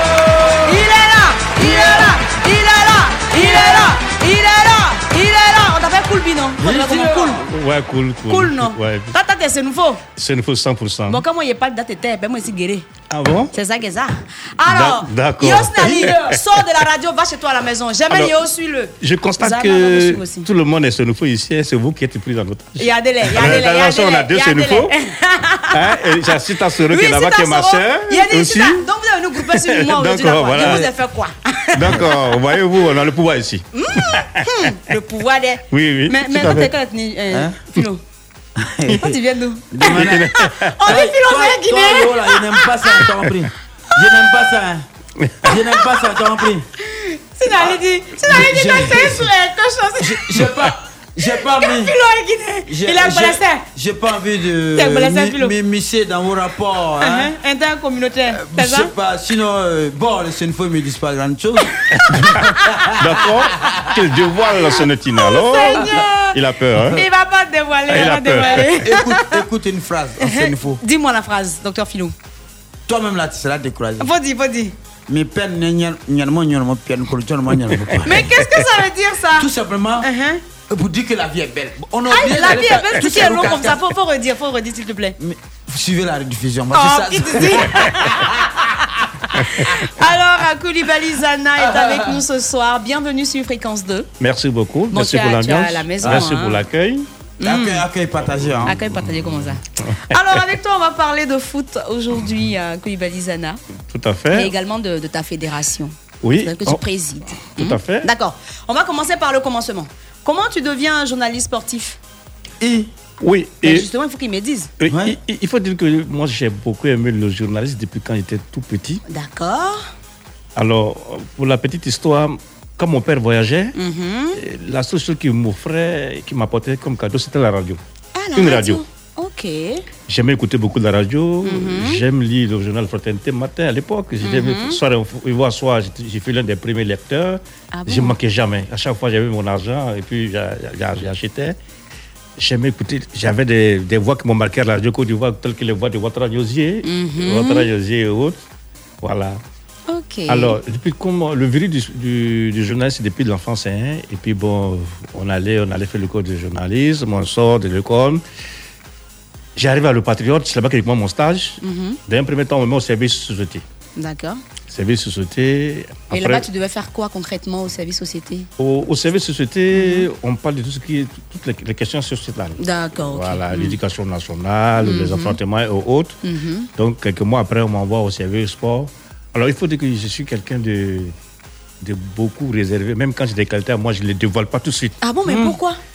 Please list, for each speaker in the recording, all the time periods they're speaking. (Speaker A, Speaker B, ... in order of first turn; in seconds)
Speaker A: 0.6-7.5, 8.3-10.0, 11.1-12.9, 13.5-20.5, 22.8-26.0, 26.9-32.1, 33.8-38.0, 38.9-42.4, 47.0-50.4, 51.2-53.6, 54.8-55.5, 57.0-58.9, 65.1-66.4, 66.9-69.3, 70.2-72.1, 74.0-74.7, 78.0-79.5, 80.0-80.4, 82.1-85.2, 86.7-88.3, 89.3-94.1, 94.9-96.6, 97.4-97.9, 98.7-103.6, 104.3-112.0, 113.6-114.7, 119.1-119.8, 123.8-124.4, 128.2-129.8, 131.4-132.0, 134.2-134.8, 137.7-138.2, 146.8-147.7, 149.9-150.6, 161.6-162.0, 164.0-164.4, 166.1-168.5, 169.7-170.1, 172.6-173.8, 174.8-175.4, 176.2-176.7, 185.0-185.8
Speaker B: 1.7-2.2, 6.6-7.4, 15.9-16.3, 30.6-30.9, 37.3-37.6, 38.6-39.1, 39.7-40.3, 40.9-44.9, 45.4-46.7, 47.5-49.3, 50.0-52.0, 52.7-57.3, 58.3-63.8, 68.5-70.8, 72.9-74.1, 75.1-78.5, 79.4-80.1, 80.7-83.8, 85.2-89.0, 91.6-92.2, 97.4-98.8, 112.6-112.9, 114.9-115.2
Speaker C: 7.4-9.2, 10.2-11.2, 13.1-13.5, 14.7-16.4, 18.1-18.4, 19.0-24.9, 25.7-28.8, 29.4-30.9, 31.7-34.5, 35.7-36.7, 39.9-41.0, 63.0-67.0, 67.9-68.8, 94.2-97.1, 98.4-100.0, 103.9-104.5, 106.2-106.8, 107.5-108.1, 113.2-113.9, 114.8-119.0, 120.6-123.8, 124.3-127.8, 128.4-128.8, 130.1-141.6, 142.4-148.4, 149.0-149.4, 150.3-158.2, 159.6-163.6, 164.7-166.5, 168.6-176.2, 176.8-181.1, 181.8-185.0